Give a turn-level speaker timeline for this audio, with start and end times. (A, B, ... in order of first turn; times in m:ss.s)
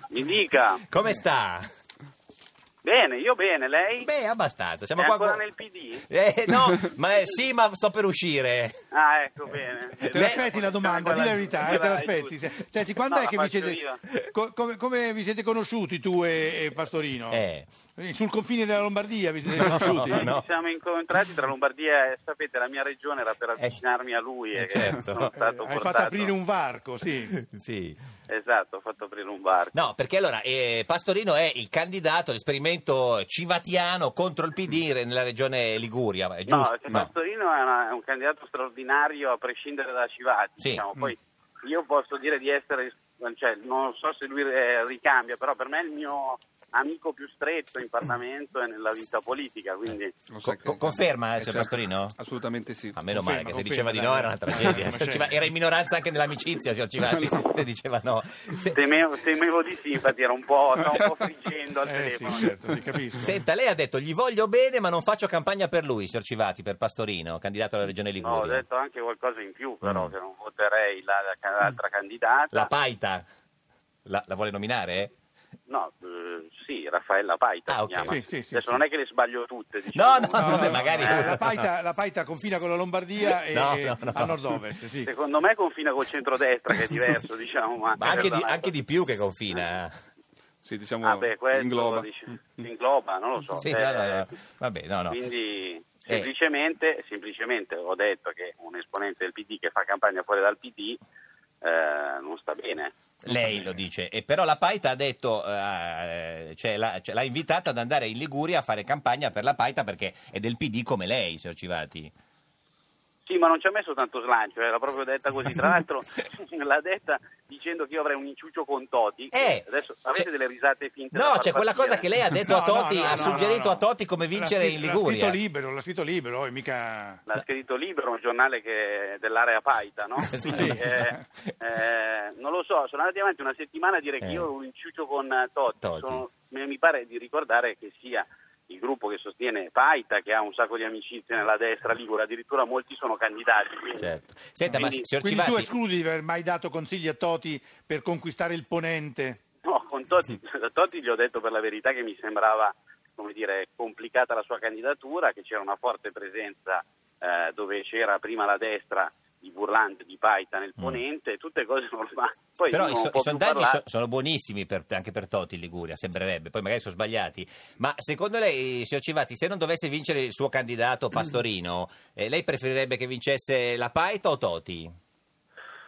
0:00.1-0:00.8 A
0:00.9-0:01.7 B
0:02.8-0:04.1 A
0:04.0-0:05.4 B
0:05.0-0:06.1 A
0:06.1-0:08.8 B
0:08.9-0:12.4 A
0:10.1-0:17.4 C
0:10.1-0:10.4 B
0:13.1-0:14.0 A
0:17.3-0:17.7 B
0:18.0-0:20.3 C
0:19.5-0:20.5 B
0:20.0-0:26.4 A
0:23.6-0:23.8 B
0:24.6-0:25.3 B
0:25.4-0:27.3 C
0:27.3-0:28.0 B
0:28.3-0:29.9 A
0:29.7-0:37.1 B
0:36.5-0:50.2 A
0:40.6-0:40.8 B
0:50.3-0:53.0 D
0:50.4-0:52.2 B
0:53.0-0:58.8 B
0:53.1-0:55.4 C
0:58.7-1:02.5 A
1:01.9-1:03.3 C
1:03.2-1:08.6 B
1:08.2-1:12.7 A
1:09.8-1:10.1 B
1:12.5-1:13.2 B
1:14.1-1:15.1 B
1:15.7-1:21.3 A
1:17.7-1:18.2 B
1:18.1-1:18.8 C
1:19.9-1:21.7 B
1:20.4-1:25.1 C
1:23.5-1:24.6 B
1:25.0-1:28.7 A
1:28.0-1:30.0 B
1:30.6-1:32.1 D
1:31.0-1:34.3 A
1:33.6-1:35.2 B
1:35.1-1:41.0 A
1:41.6-1:42.9 A
1:43.2-1:52.1 B
1:53.3-2:02.1 A
1:59.3-2:00.3 B
2:01.1-2:05.4 B
2:02.5-2:07.2 C
2:07.3-2:24.1 A
2:10.3-2:11.1 B
2:10.5-2:11.2 C
2:14.2-2:14.5 B
2:15.8-2:16.2 B
2:24.0-2:25.7 B
2:24.7-2:29.4 C
2:24.8-2:25.1 A
2:29.6-2:43.8 A
2:42.7-2:55.0 B